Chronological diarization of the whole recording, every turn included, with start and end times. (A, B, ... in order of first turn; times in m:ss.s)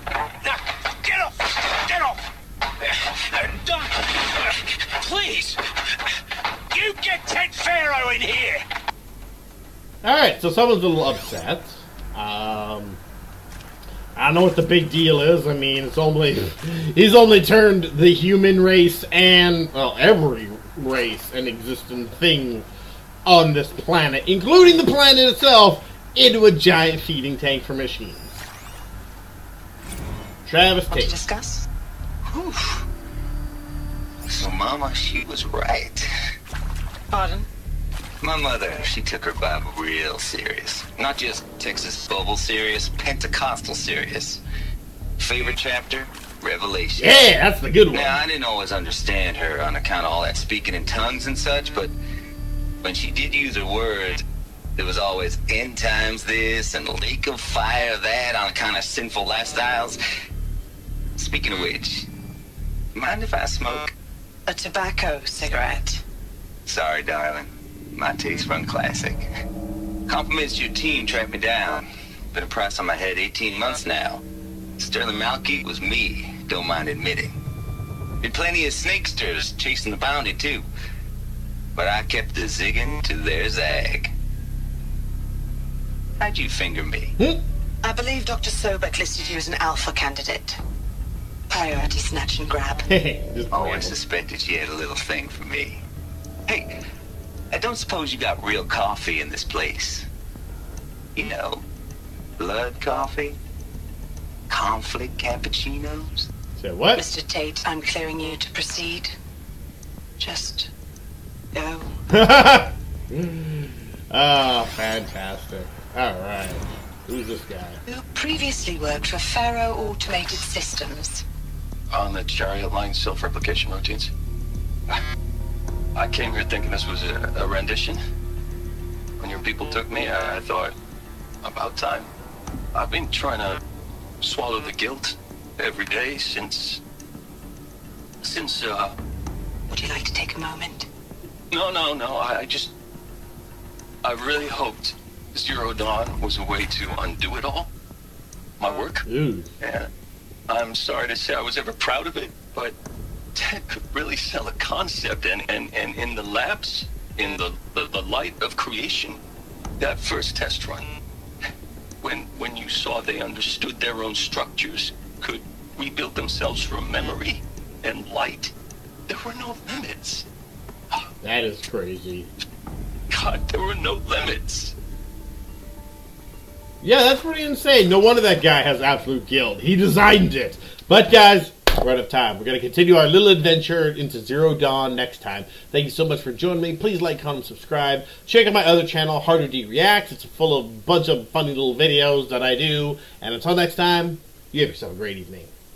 0:00.4-0:02.2 A
0:02.8-0:05.6 A
0:06.7-0:08.6 A
0:10.0-0:13.0 B
0:14.2-0:22.7 B
0:23.2-0:28.4 B
0:30.4-0:31.2 B
0:30.9-0:31.7 C
0:32.3-0:32.8 C
0:34.3-0:36.1 D
0:37.1-0:37.4 C
0:38.2-0:44.4 D
0:45.2-0:47.3 D
0:47.0-0:48.2 B
0:47.9-0:52.0 D
0:52.8-0:54.2 D
0:54.8-1:00.0 D
1:01.2-1:02.1 D
1:02.9-1:03.9 D
1:04.5-1:06.0 C
1:06.6-1:09.3 D
1:10.1-1:14.2 D
1:14.8-1:17.3 D
1:18.2-1:20.6 D
1:21.8-1:24.1 D
1:26.2-1:27.1 D
1:27.8-1:30.6 C
1:31.5-1:32.9 C
1:32.9-1:34.0 B
1:33.5-1:35.8 D
1:37.5-1:40.1 D
1:41.1-1:41.6 D
1:42.4-1:43.4 D
1:44.5-1:46.3 D
1:46.6-1:47.0 B
1:47.0-1:49.1 C
1:50.2-1:50.7 C
1:51.5-1:52.0 C
1:52.1-1:57.8 B
1:57.9-2:01.2 C
2:01.9-2:04.1 E
2:05.9-2:08.0 E
2:09.2-2:10.7 E
2:11.4-2:12.1 E
2:12.7-2:13.6 E
2:14.2-2:16.8 E
2:18.2-2:18.9 E
2:19.7-2:20.9 C
2:21.5-2:22.7 E
2:24.0-2:27.7 E
2:28.6-2:29.0 E
2:29.0-2:29.5 B
2:29.6-2:29.9 E
2:30.5-2:32.8 E
2:33.3-2:39.2 E
2:39.8-2:41.0 E
2:42.0-2:48.5 E
2:49.1-2:50.2 E
2:51.2-2:52.3 B
2:53.1-2:54.7 E
2:56.8-3:15.5 B